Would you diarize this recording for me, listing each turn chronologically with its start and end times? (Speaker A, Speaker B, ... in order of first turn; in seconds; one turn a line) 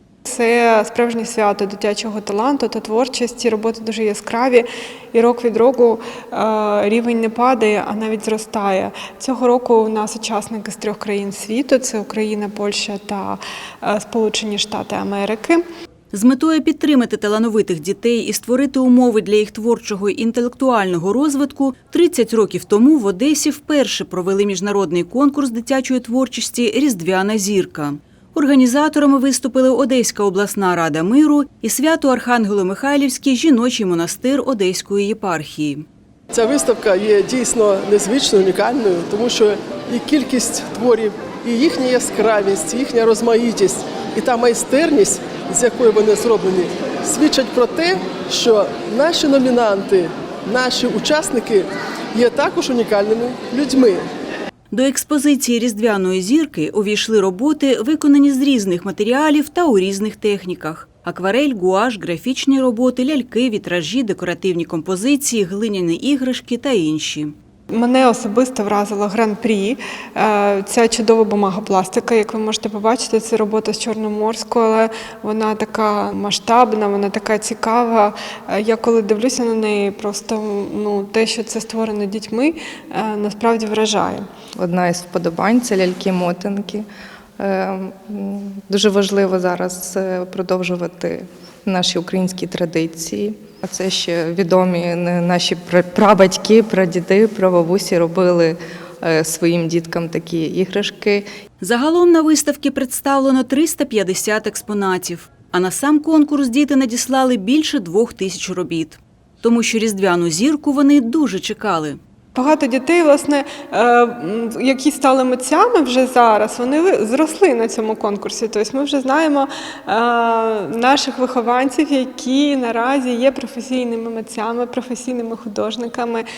Speaker A: 0.2-15.6
Speaker B: 16.1-35.8
Speaker C: 36.3-54.0
Speaker B: 54.7-67.3
Speaker A: 67.7-84.2
Speaker D: 84.6-86.8
Speaker D: 87.4-101.2
Speaker B: 101.6-112.0
Speaker A: 112.3-126.2